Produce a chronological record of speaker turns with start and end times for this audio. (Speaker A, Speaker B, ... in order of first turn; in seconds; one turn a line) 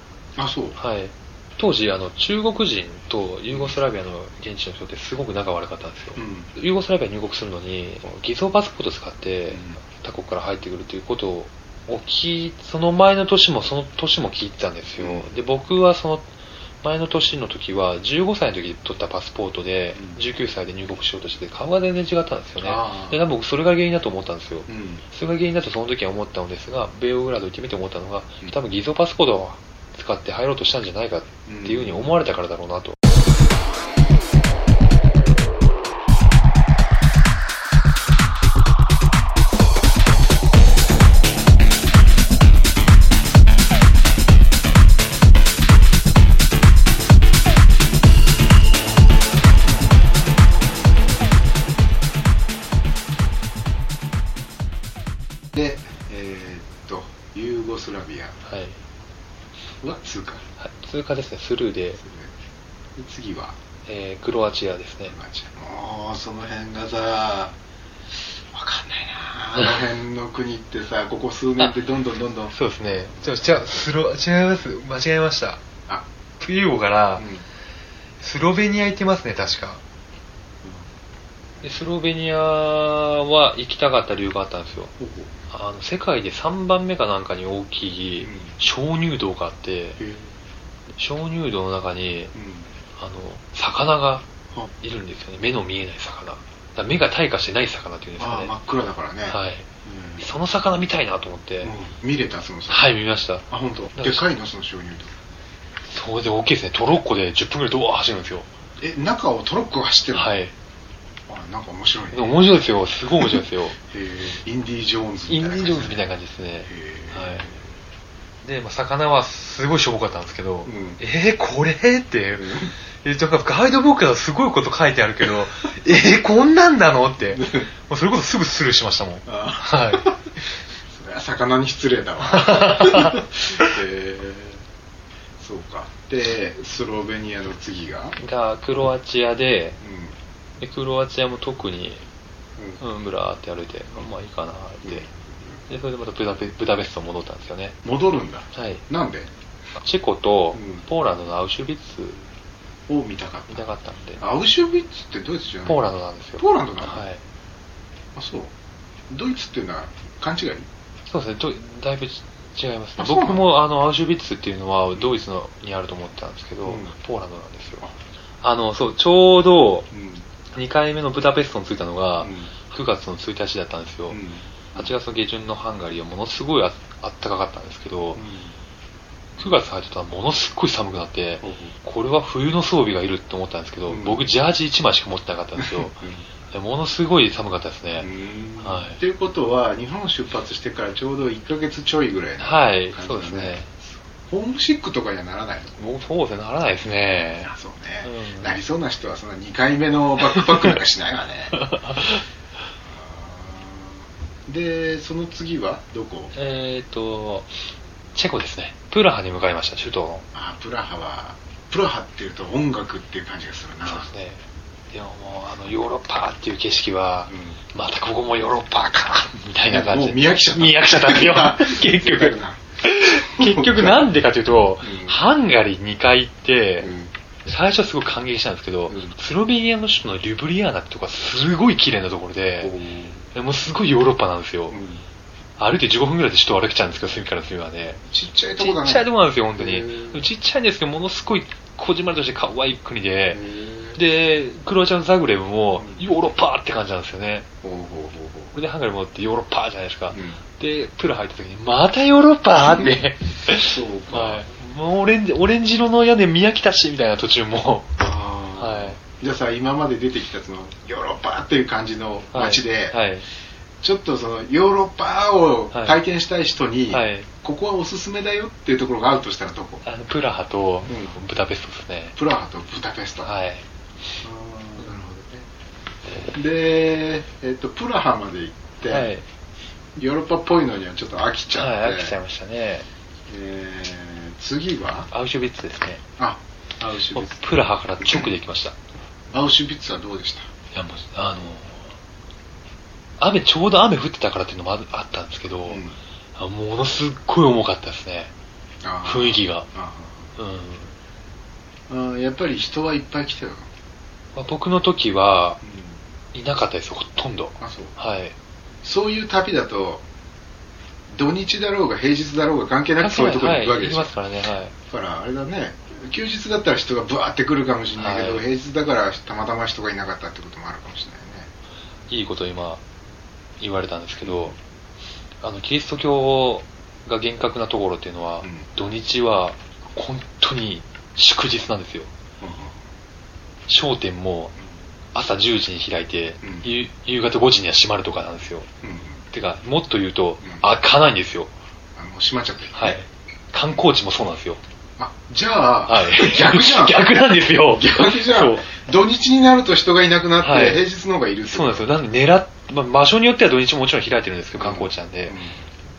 Speaker A: 0.4-0.8
Speaker B: 0.8-16.3
Speaker A: 3.5-3.8
Speaker A: 6.2-6.5
Speaker A: 9.5-9.8
Speaker A: 15.0-15.3
Speaker B: 16.8-33.0
Speaker A: 19.9-20.2
Speaker A: 22.6-23.2
Speaker A: 24.7-25.0
Speaker A: 31.5-32.1
Speaker A: 55.5-58.4
Speaker B: 58.4-58.8
Speaker A: 59.8-60.4
Speaker B: 60.6-62.0
Speaker A: 62.0-62.4
Speaker A: 63.0-63.6
Speaker B: 63.9-65.1
Speaker A: 65.1-67.5
Speaker A: 68.2-72.5
Speaker B: 72.5-75.6
Speaker B: 76.4-77.3
Speaker A: 77.2-77.5
Speaker B: 78.2-79.8
Speaker A: 80.6-80.9
Speaker B: 81.6-84.9
Speaker A: 85.0-85.3
Speaker B: 85.5-90.0
Speaker A: 88.2-88.5
Speaker A: 90.0-90.4
Speaker B: 91.0-92.3
Speaker A: 92.3-92.7
Speaker B: 93.0-94.2
Speaker B: 94.8-98.5
Speaker A: 98.2-100.3
Speaker B: 99.3-99.7
Speaker B: 100.2-101.7
Speaker A: 101.6-102.9
Speaker B: 102.7-104.2
Speaker A: 103.5-105.1
Speaker B: 105.8-108.5
Speaker A: 108.8-110.3
Speaker B: 110.1-110.5
Speaker A: 111.3-116.1
Speaker B: 112.1-113.8
Speaker B: 115.3-117.5
Speaker A: 116.7-117.8
Speaker B: 118.4-130.1
Speaker A: 120.7-121.0
Speaker A: 122.3-122.7
Speaker A: 127.3-127.7
Speaker A: 129.2-130.3
Speaker A: 130.8-134.6
Speaker B: 132.3-133.3
Speaker A: 135.4-138.2
Speaker B: 138.2-139.8
Speaker A: 139.8-140.2
Speaker B: 140.6-142.0
Speaker B: 142.8-145.1
Speaker A: 144.8-145.6
Speaker B: 145.7-147.8
Speaker A: 147.8-149.3
Speaker B: 148.5-148.8
Speaker B: 149.8-152.2
Speaker A: 150.5-150.8
Speaker A: 152.9-155.8
Speaker B: 153.5-154.2
Speaker B: 155.7-157.2
Speaker A: 156.4-157.0
Speaker A: 158.1-158.5
Speaker A: 159.1-160.7
Speaker B: 161.1-167.8
Speaker A: 163.0-163.4
Speaker A: 166.6-166.9
Speaker B: 168.4-169.9
Speaker A: 169.9-170.2
Speaker B: 170.5-174.2
Speaker A: 172.2-172.5
Speaker A: 174.1-174.9
Speaker B: 174.8-178.2
Speaker A: 178.2-178.6
Speaker B: 179.4-186.0
Speaker A: 181.4-181.8
Speaker A: 183.9-184.2
Speaker A: 185.6-186.2
Speaker B: 186.5-188.1
Speaker A: 188.0-193.6
Speaker B: 188.6-189.0
Speaker B: 192.4-193.7
Speaker A: 194.3-195.8
Speaker B: 195.8-197.5
Speaker A: 197.4-201.7
Speaker B: 198.0-198.6
Speaker B: 200.4-200.7
Speaker B: 201.6-202.2
Speaker A: 202.8-206.3
Speaker B: 206.3-210.2
Speaker A: 210.3-214.1
Speaker B: 213.8-226.9
Speaker A: 217.3-217.6
Speaker A: 219.6-224.1
Speaker A: 224.8-225.2
Speaker A: 226.8-227.1
Speaker B: 227.4-232.8
Speaker A: 228.9-229.1
Speaker A: 232.6-233.2
Speaker B: 233.3-234.8
Speaker A: 234.7-235.0
Speaker B: 235.6-238.0
Speaker A: 238.1-240.2
Speaker B: 238.6-243.4
Speaker A: 243.3-244.0
Speaker B: 243.9-247.5
Speaker A: 245.8-246.1
Speaker A: 247.6-248.6
Speaker B: 248.5-258.0
Speaker A: 250.1-250.4
Speaker A: 252.6-252.9
Speaker A: 253.5-254.4
Speaker A: 258.0-263.0
Speaker B: 258.6-259.0
Speaker B: 262.3-263.2
Speaker A: 263.8-269.8
Speaker B: 266.9-267.3
Speaker B: 269.8-272.1
Speaker A: 270.8-271.2
Speaker A: 272.1-273.3
Speaker B: 273.2-273.6
Speaker A: 274.2-275.5
Speaker A: 276.2-279.1
Speaker B: 278.9-279.2
Speaker A: 279.9-282.1
Speaker B: 281.5-282.9
Speaker A: 283.3-285.1
Speaker B: 285.1-286.0
Speaker A: 286.2-288.3
Speaker B: 287.1-288.7
Speaker A: 289.3-290.5
Speaker B: 290.7-291.9
Speaker B: 293.2-295.8
Speaker A: 295.6-295.9
Speaker B: 296.4-298.3
Speaker A: 298.8-300.3
Speaker B: 299.0-299.7
Speaker B: 300.4-300.9
Speaker A: 301.9-303.7
Speaker B: 304.3-305.6
Speaker A: 305.6-306.0
Speaker B: 306.3-308.3
Speaker A: 307.6-307.9
Speaker A: 308.8-310.0
Speaker A: 311.1-314.1
Speaker B: 313.0-314.7
Speaker A: 314.9-321.5
Speaker B: 318.0-318.4
Speaker B: 322.1-322.8
Speaker B: 323.6-324.5
Speaker A: 324.2-324.6
Speaker B: 325.4-332.1
Speaker A: 332.4-332.8
Speaker B: 333.7-334.5
Speaker B: 335.1-338.7
Speaker A: 336.4-336.7
Speaker A: 338.8-339.2
Speaker B: 339.3-341.5
Speaker A: 341.9-343.0
Speaker B: 342.7-344.6
Speaker A: 345.0-351.9
Speaker B: 345.9-348.7
Speaker B: 350.4-350.8
Speaker B: 351.5-355.4
Speaker A: 354.6-355.6